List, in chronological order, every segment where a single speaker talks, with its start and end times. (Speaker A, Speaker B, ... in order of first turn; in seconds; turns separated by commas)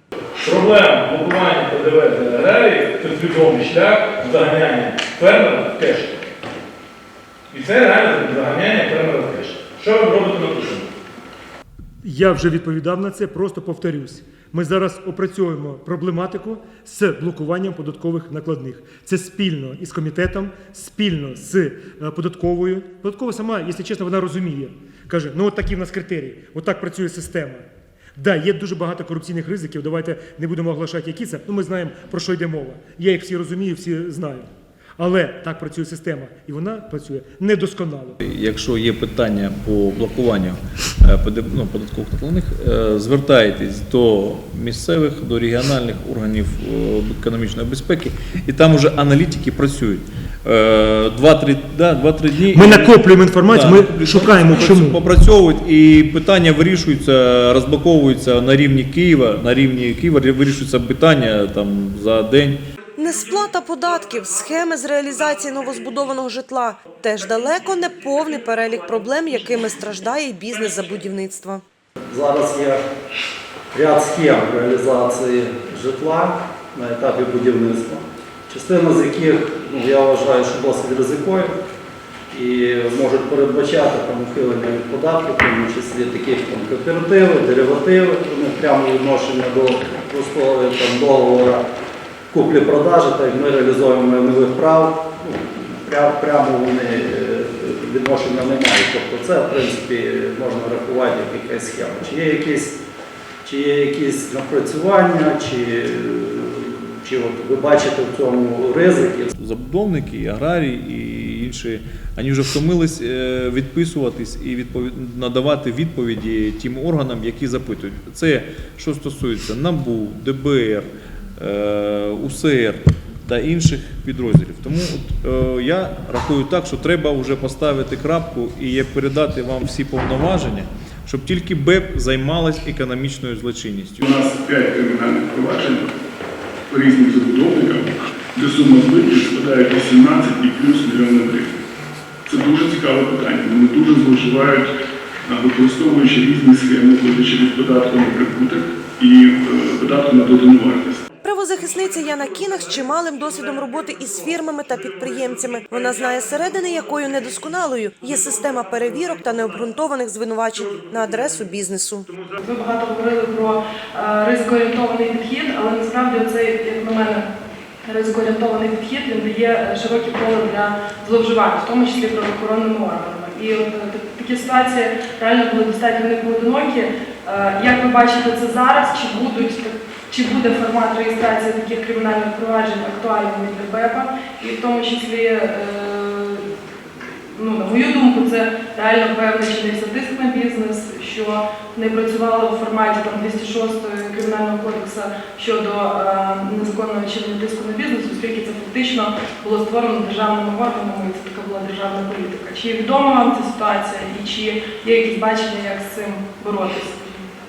Speaker A: 0.4-6.1, Speaker A: 7.5-10.9, Speaker B: 12.0-38.2, Speaker C: 38.2-62.6, Speaker B: 52.4-55.0, Speaker D: 63.0-71.6, Speaker E: 72.1-72.8, Speaker E: 73.7-81.5, Speaker E: 82.3-91.6, Speaker E: 92.3-102.8, Speaker E: 103.5-109.3, Speaker C: 109.4-134.1, Speaker F: 134.0-135.9, Speaker F: 136.7-141.6, Speaker F: 142.3-144.7, Speaker F: 145.3-151.1, Speaker D: 151.2-162.1, Speaker G: 162.4-167.3, Speaker G: 167.9-186.4, Speaker G: 187.3-207.2